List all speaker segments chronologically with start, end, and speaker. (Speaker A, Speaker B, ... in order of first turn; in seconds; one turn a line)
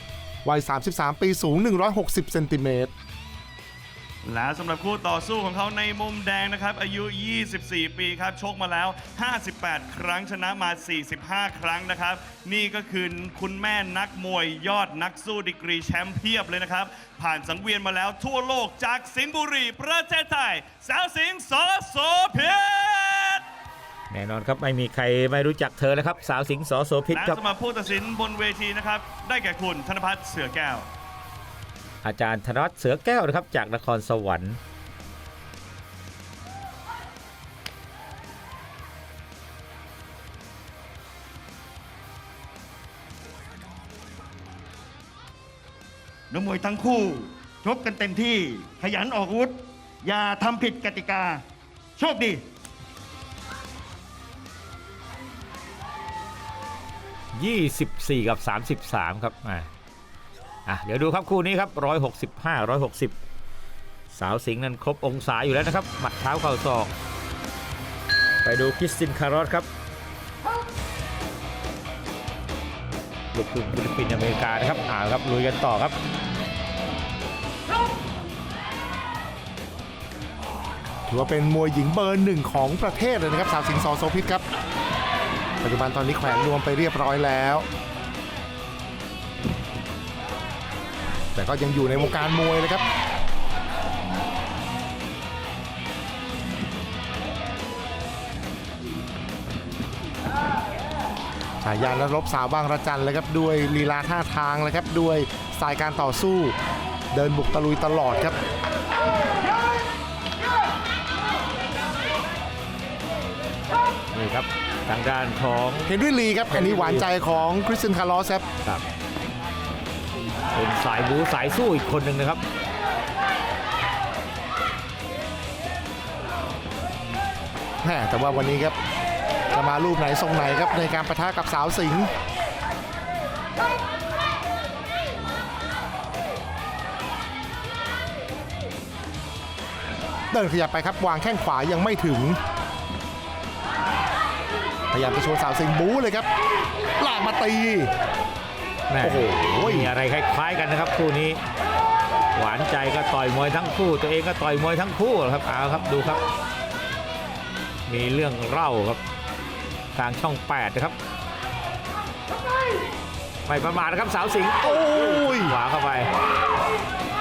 Speaker A: 0.4-2.9
Speaker B: 4.2-23.4
Speaker C: 24.1-27.4
Speaker B: 27.1-30.9
Speaker C: 32.0-34.6
Speaker D: 46.3-51.4
Speaker D: 52.0-52.5
Speaker C: 57.3-59.7
Speaker C: 60.7-63.1
Speaker C: 64.1-66.9
Speaker C: 68.4-69.7
Speaker C: 73.3-75.9
Speaker A: 81.1-84.4
Speaker A: 85.6-87.7
Speaker A: 91.3-92.8
Speaker A: 101.6-106.5
Speaker A: 107.1-108.4
Speaker C: 114.1-115.9
Speaker A: 115.9-118.5
Speaker C: 116.5-117.2
Speaker C: 120.5-122.4
Speaker A: 127.8-128.8
Speaker A: 129.5-132.1
Speaker A: 140.3-142.4
Speaker A: 144.9-146.3
Speaker A: 147.0-147.9
Speaker C: 148.9-151.4
Speaker A: 149.0-149.9
Speaker C: 152.3-156.2
Speaker C: 157.9-159.0
Speaker C: 159.9-160.9
Speaker C: 163.4-166.1
Speaker A: 164.6-165.6